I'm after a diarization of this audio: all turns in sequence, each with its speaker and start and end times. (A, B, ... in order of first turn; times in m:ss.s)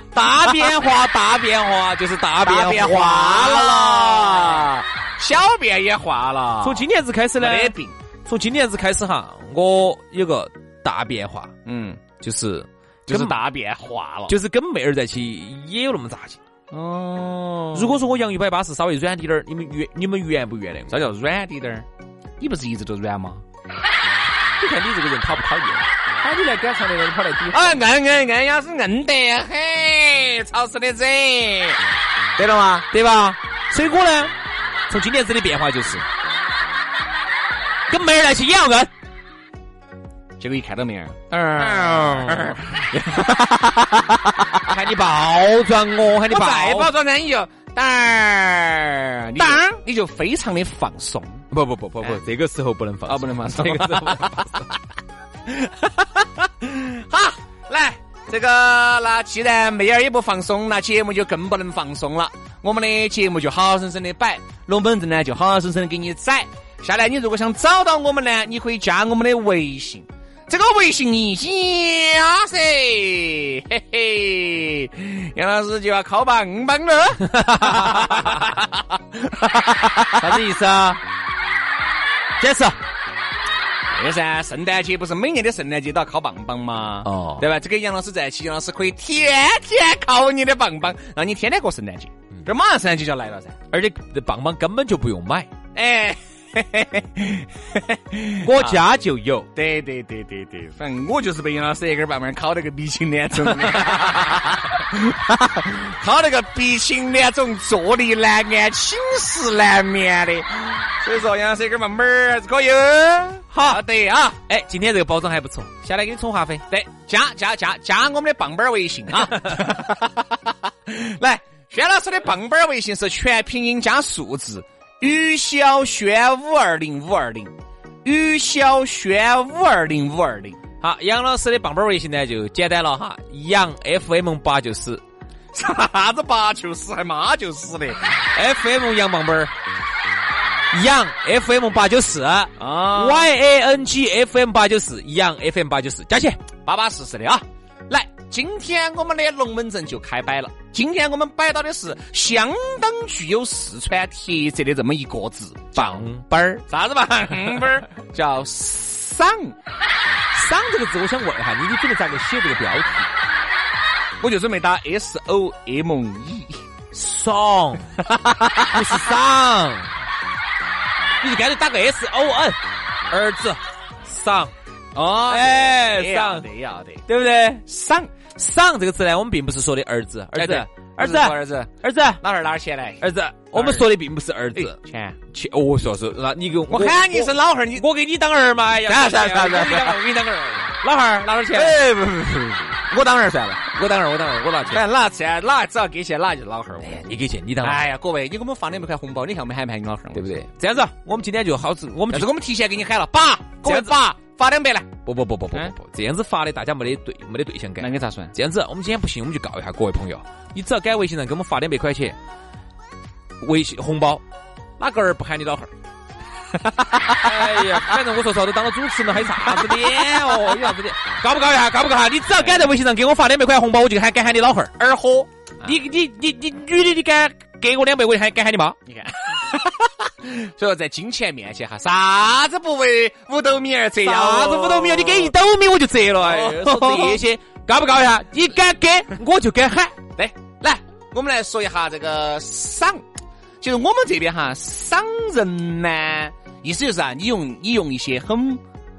0:00.1-0:04.6 A
0:02.4-0:06.8 B
0:06.6-0:07.7 A
0:07.4-0:08.0 B
0:08.3-0:11.5 A
0:11.7-0:12.0 B
0:12.2-0:13.4 A
0:13.1-0:14.4 B
0:14.3-0:16.4 A
0:16.7-0:18.0 B
0:17.7-0:21.0 A
0:20.9-0:21.9 B
0:22.4-0:23.4 B
0:24.6-0:27.8 A
0:27.5-0:31.8 B
0:32.4-0:32.9 B
0:32.9-0:34.3 A
0:34.9-0:36.1 A
0:37.9-0:38.9 A
0:40.4-0:44.3 B
0:41.6-0:42.6 A
0:44.7-0:46.9 A
0:46.3-0:51.4 B
0:49.4-0:49.7 A
0:51.5-0:54.7 A
0:53.1-0:54.5 B
0:55.5-1:20.0 B
1:17.3-1:18.4 A
1:20.1-1:21.0 A
1:22.4-1:22.8 A
1:23.9-1:33.6 B
1:27.0-1:27.4 A
1:33.7-1:35.5 A
1:35.8-1:38.8 B
1:38.4-1:39.5 A
1:39.6-1:54.4 B
1:53.5-1:53.8 A
1:54.5-1:56.6 A
1:56.7-2:07.5 B
2:08.0-2:10.6 B
2:10.8-2:15.0 A
2:15.5-2:18.0 B
2:18.3-2:19.5 A
2:20.7-2:26.4 A
2:22.6-2:23.3 B
2:26.6-2:36.1 B
2:35.8-2:36.6 A
2:36.7-2:39.5 B
2:40.3-2:43.1 A
2:44.2-2:46.6 B
2:46.9-2:47.9 A
2:48.0-2:48.7 B
2:48.6-2:49.9 A
2:51.2-2:52.6 A
2:53.1-2:54.5 A
2:55.0-2:57.0 B
2:55.3-2:56.4 A
2:57.1-2:57.6 A
2:57.7-2:58.1 B
2:58.4-3:02.2 A
3:00.4-3:03.0 B
3:03.0-3:04.8 A
3:03.5-3:03.9 B
3:04.6-3:05.2 B
3:05.3-3:10.0 A
3:06.7-3:07.8 B
3:08.9-3:10.8 B
3:10.8-3:11.8 A
3:11.3-3:13.6 B
3:13.7-3:14.8 A
3:14.7-3:17.1 B
3:16.8-3:17.8 A
3:17.6-3:20.3 B
3:20.1-3:22.3 A
3:22.1-3:24.9 B
3:23.6-3:23.9 A
3:25.0-3:32.2 A
3:27.8-3:28.3 B
3:33.4-3:34.2 A
3:34.8-3:35.7 A
3:36.6-3:37.8 B
3:37.1-3:44.7 A
3:39.5-3:40.5 B
3:42.4-3:42.7 B
3:44.8-3:45.6 B
3:45.6-3:48.8 A
3:48.9-3:55.3 B
3:54.0-4:00.0 A
3:56.2-3:57.3 B
4:00.2-4:03.0 B
4:03.6-4:08.6 B